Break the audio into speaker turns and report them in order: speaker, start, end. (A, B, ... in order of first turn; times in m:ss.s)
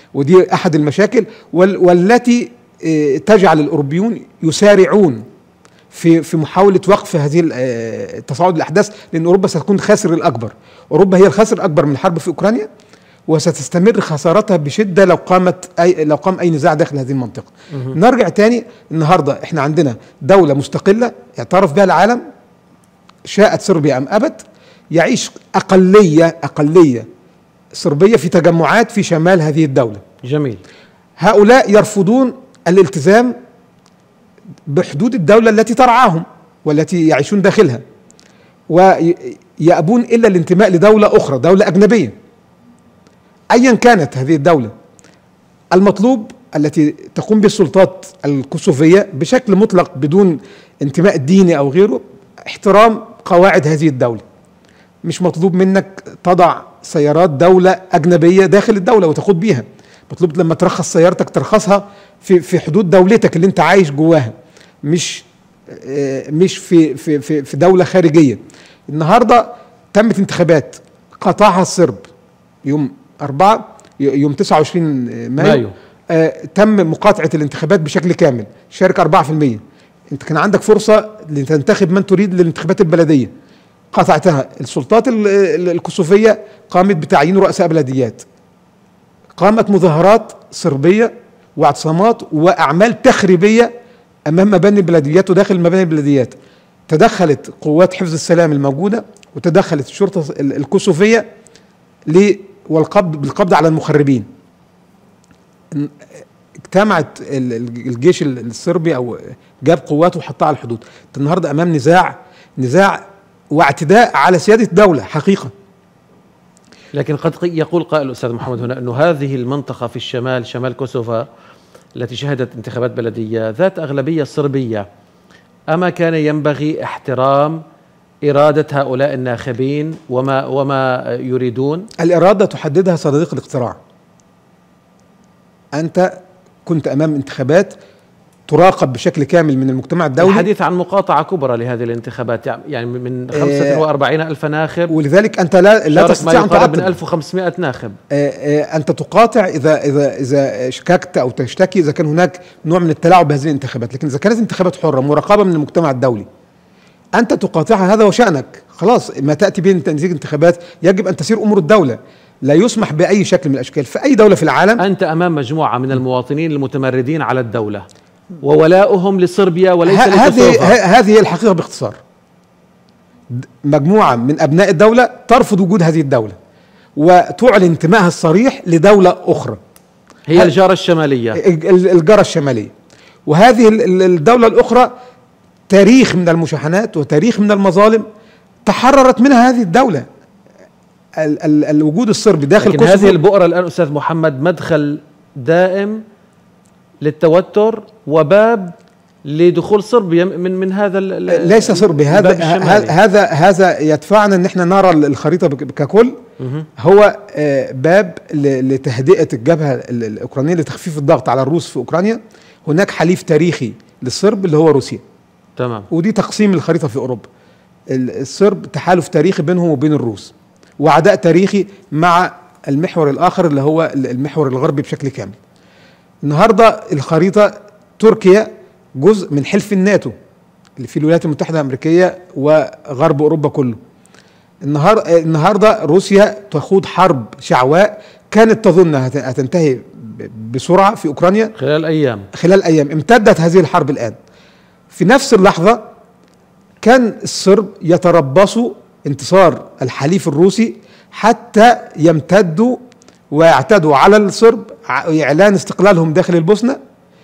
0:00.1-0:05.2 A
0:05.9-0:12.7 A
0:13.3-0:22.2 A
0:23.3-0:27.0 A
0:27.7-0:30.0 A
0:30.2-0:30.6 B
0:31.2-0:33.3 A
0:34.7-0:37.8 A
0:38.7-0:42.1 A
0:43.5-0:44.7 A
0:45.7-0:54.2 A
0:55.0-1:04.3 A
1:04.8-1:12.0 A
1:12.6-1:23.3 A
1:15.4-1:15.7 B
1:23.9-1:28.2 A
1:29.4-1:33.7 A
1:34.3-1:36.3 A
1:36.9-1:41.3 A
1:42.1-1:44.3 A
1:46.6-1:55.5 A
1:56.9-2:01.3 B
2:01.9-2:04.9 B
2:05.7-2:07.6 B
2:08.2-2:11.9 B
2:12.0-2:13.8 A
2:15.7-2:16.1 A
2:16.6-2:17.7 A
2:18.5-2:20.5 A
2:20.2-2:24.9 B
2:23.3-2:23.8 A
2:24.9-2:26.9 A
2:25.9-2:28.0 B
2:28.1-2:36.3 A
2:37.1-2:44.8 A
2:44.8-2:47.8 B
2:48.4-2:50.8 B
2:49.8-2:52.0 A
2:53.3-2:56.4 A
2:57.0-2:59.6 A
3:00.3-3:01.4 B
3:01.4-3:02.7 A
3:03.3-3:04.9 A
3:05.7-3:08.0 A
3:08.6-3:10.0 A
3:11.2-3:13.2 A
3:12.6-3:16.0 B
3:17.0-3:18.7 B
3:19.2-3:22.9 B
3:21.3-3:26.2 A
3:26.4-3:26.7 B
3:26.8-3:35.0 A
3:35.6-3:35.9 B
3:35.9-3:37.2 A
3:37.9-3:45.4 A
3:46.2-3:50.1 A
3:50.8-3:53.8 A
3:54.6-4:01.5 A
4:01.6-4:02.3 B
4:02.3-4:04.2 A
4:04.9-4:05.8 A
4:06.8-4:12.8 A
4:13.3-4:16.8 A